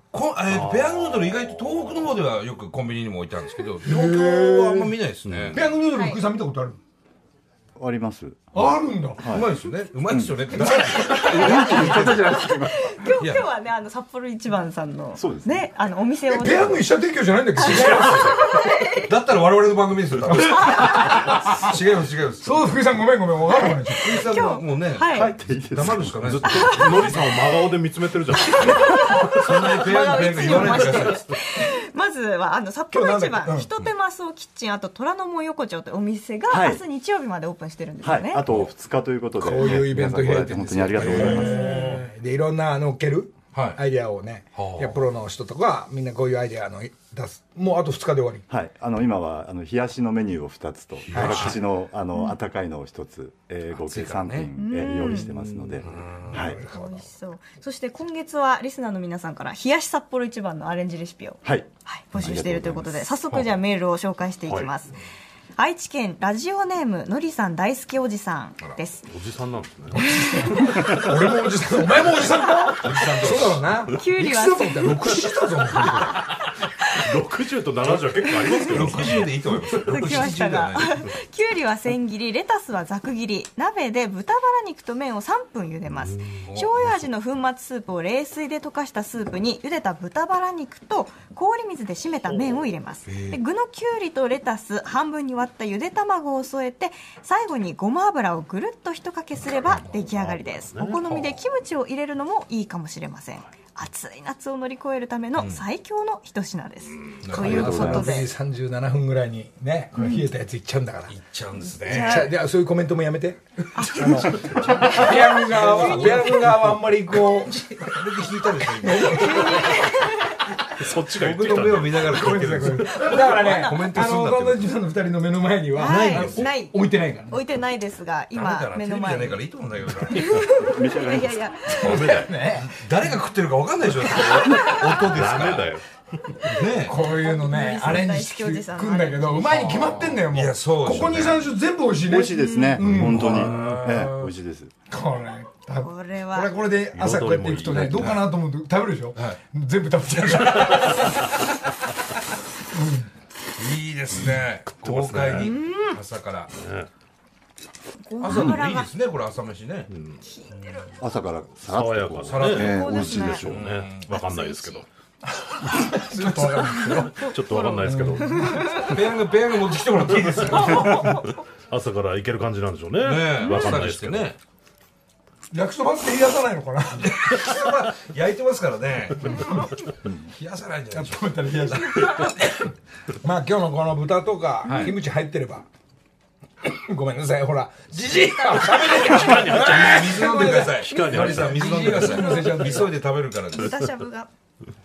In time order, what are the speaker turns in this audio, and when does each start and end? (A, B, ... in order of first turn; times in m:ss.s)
0:00.1-0:05.7 A
0:00.5-0:02.2 B
0:03.8-0:05.0 C
0:05.3-0:05.6 B
0:05.5-0:06.8 C
0:05.9-0:06.2 D
0:07.8-0:09.5 E
0:08.5-0:09.3 C
0:09.3-0:12.4 A
0:10.1-0:12.8 E
0:10.6-0:12.4 C
0:10.8-0:16.9 D
0:13.2-0:13.5 A
0:15.2-0:15.7 E
0:16.3-0:18.5 C
0:17.6-0:19.1 D
0:17.6-0:18.5 A
0:19.0-0:22.7 A
0:20.3-0:21.7 C
0:20.5-0:20.9 D
0:22.4-0:24.2 C
0:24.0-0:27.3 A
0:24.1-0:25.4 D
0:25.1-0:26.2 E
0:26.1-0:29.2 B
0:26.4-0:27.3 D
0:28.4-0:38.4 D
0:29.3-0:31.3 A
0:30.3-0:30.9 C
0:32.9-0:33.7 C
0:36.5-0:36.8 E
0:38.0-0:41.8 E
0:39.4-0:48.4 C
0:41.0-0:41.5 A
0:41.2-0:42.0 B
0:41.4-0:41.7 D
0:44.6-0:45.0 A
0:48.5-0:56.6 E
0:51.1-0:51.5 B
0:51.1-0:51.6 A
0:51.1-0:51.5 C
0:53.7-0:54.5 A
0:54.6-0:55.4 D
0:55.8-0:56.6 A
0:56.3-0:57.1 C
0:56.4-1:05.0 D
1:01.4-1:03.0 E
1:05.6-1:09.1 D
1:09.1-1:10.8 B
1:10.0-1:16.3 C
1:10.1-1:10.8 D
1:12.8-1:13.6 A
1:12.8-1:13.6 B
1:13.9-1:15.4 D
1:17.0-1:20.2 B
1:17.9-1:21.1 A
1:18.2-1:48.3 D
1:26.0-1:26.3 B
1:26.4-1:27.0 A
1:33.1-1:33.4 A
1:39.7-1:41.3 B
1:45.4-1:45.6 A
1:47.2-1:47.9 A
1:47.4-1:48.2 E
1:47.4-1:51.1 C
1:50.0-1:50.3 D
1:51.1-1:52.3 A
1:51.7-1:52.3 D
1:51.9-1:57.8 C
1:53.8-1:56.4 D
1:54.2-1:59.9 A
1:58.8-1:59.8 C
1:58.9-2:00.5 D
2:00.8-2:02.8 B
2:01.1-2:04.7 A
2:02.1-2:07.4 C
2:03.0-2:03.9 D
2:05.7-2:09.4 D
2:05.8-2:06.5 A
2:08.3-2:10.4 A
2:10.0-2:12.3 D
2:10.5-2:11.4 E
2:11.7-2:12.8 C
2:11.8-2:12.3 B
2:12.6-2:15.8 A
2:14.3-2:14.8 D
2:14.6-2:15.9 B
2:16.4-2:17.0 A
2:16.8-2:23.4 C
2:16.9-2:20.2 D
2:19.8-2:21.5 A
2:22.0-2:24.7 E
2:22.3-2:22.8 D
2:22.8-2:24.3 A
2:23.2-2:23.7 B
2:24.9-2:31.2 C
2:25.8-2:26.5 D
2:26.9-2:28.2 B
2:27.9-2:28.2 A
2:30.4-2:31.0 A
2:32.7-2:33.1 C
2:33.6-2:36.5 A
2:34.8-2:35.6 B
2:35.3-2:36.0 D
2:36.6-2:36.9 B
2:38.0-2:38.9 D
2:38.2-2:39.9 A
2:39.9-2:40.2 B
2:40.2-2:41.1 D
2:41.0-2:43.6 E
2:41.7-2:44.9 B
2:42.2-2:44.1 A
2:42.4-2:44.8 D
2:45.4-2:48.8 C
2:46.1-2:47.0 A
2:46.8-2:49.1 D
2:47.1-2:48.9 B
2:48.8-2:51.2 A
2:50.2-2:54.3 B
2:50.4-2:51.4 D
2:53.0-2:54.4 A
2:53.4-2:53.8 D
2:55.5-2:57.4 C
2:57.0-3:02.3 A
2:59.3-2:59.7 C
3:00.9-3:02.7 C
3:03.2-3:05.7 C
3:04.6-3:04.9 A
3:06.6-3:12.9 C
3:08.1-3:09.5 D
3:08.8-3:12.3 B
3:09.0-3:13.8 A
3:10.4-3:12.9 D
3:13.5-3:14.3 D